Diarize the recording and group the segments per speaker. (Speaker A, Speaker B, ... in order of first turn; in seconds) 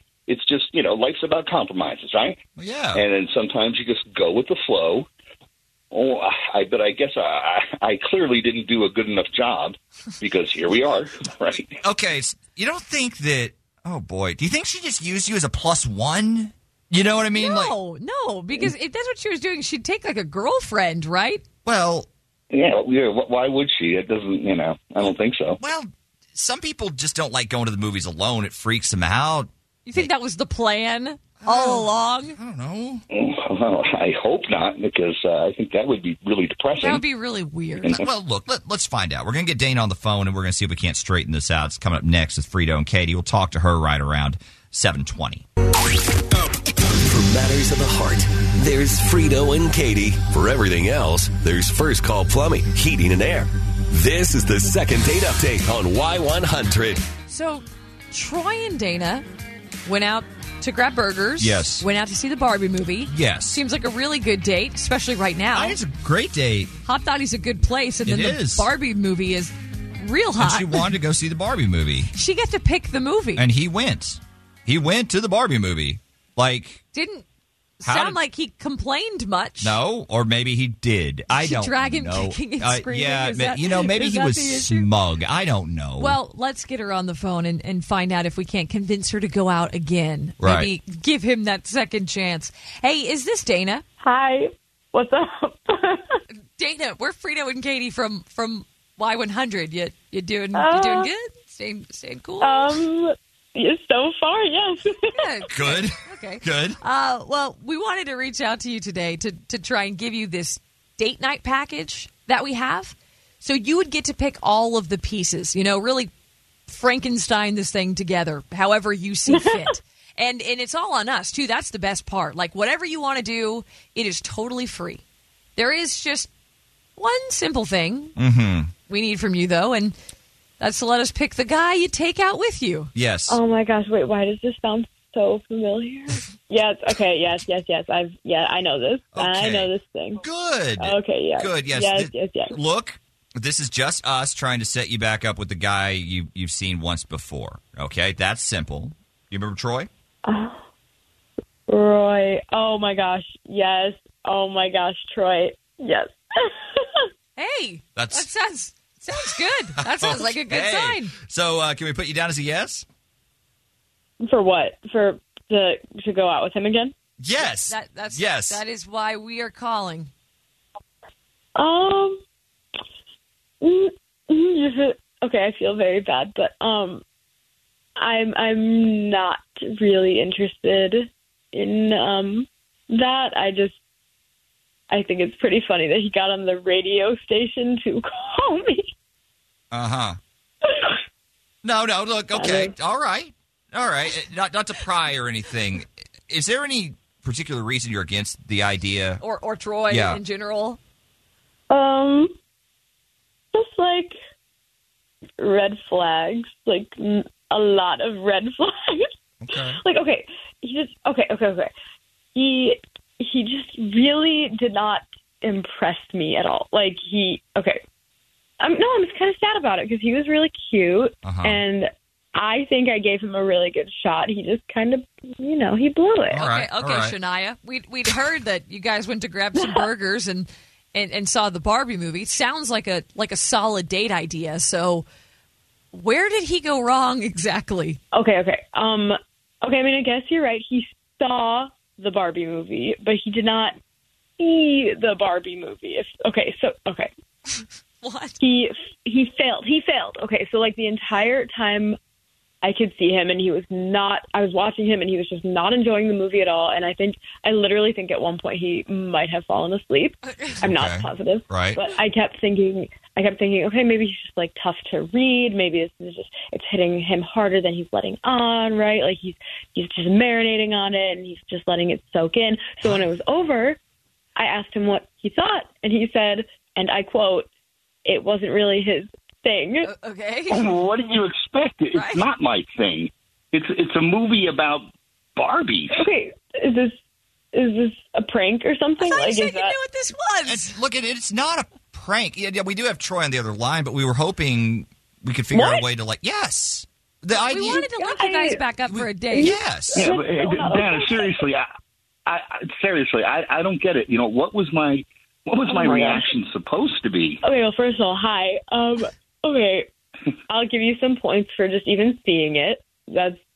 Speaker A: 0.3-2.4, 2.9-5.1, 5.9-11.8, 22.5-25.6, 33.1-37.0, 37.8-38.1, 280.5-286.1, 299.9-301.6, 302.2-307.4
Speaker B: 2.6-3.0, 11.8-17.8, 21.6-22.1, 25.0-30.1, 31.4-33.0, 37.9-45.4, 61.4-61.9, 63.1-63.6, 65.5-66.7, 68.0-68.7, 70.4-72.1, 73.4-76.8, 77.8-78.2, 79.6-86.2, 90.4-90.7, 105.5-106.8, 128.2-128.7, 132.9-133.4, 139.1-149.9, 157.9-158.3, 159.8-162.8, 167.2-168.6, 189.7-190.2, 191.6-199.2, 199.9-200.2, 209.4-209.8, 221.2-221.6, 226.3-227.2, 260.6-261.8, 290.5-297.9, 298.9-300.1
Speaker C: 17.4-21.4, 29.9-32.4, 36.8-38.0, 57.3-59.2, 59.8-65.8, 66.8-70.9, 72.1-73.4, 76.9-77.2, 77.8-79.8, 81.3-84.9, 86.0-93.8, 96.6-102.8, 105.1-116.1, 116.7-125.0, 125.6-126.3, 127.0-128.2, 128.9-129.9, 130.6-132.9, 157.4-161.1, 167.4-170.1, 199.2-200.8, 226.4-235.1, 235.9-238.0, 248.0-248.4, 279.8-280.6, 281.9-282.2, 289.0-290.8, 297.5-299.6
Speaker D: 46.3-57.1
Speaker E: 94.0-96.2, 100.5-101.1, 102.4-105.4, 133.3-140.2, 140.8-142.6, 150.2-150.6, 151.7-157.1, 164.2-166.9, 171.6-172.2, 173.6-177.0, 178.0-183.8, 184.9-188.9, 192.3-192.7, 201.7-202.3, 203.5-204.1, 205.4-209.1, 209.8-211.7, 212.3-217.8, 218.6-226.4, 229.6-229.8, 238.1-243.8, 244.4-247.1, 248.4-252.0, 252.6-273.8, 274.4-277.5, 278.1-279.9, 285.9-286.9, 287.5-289.8, 295.5-295.9, 297.5-298.6, 299.3-301.4, 305.7-306.3, 307.4-309.9, 310.5-313.4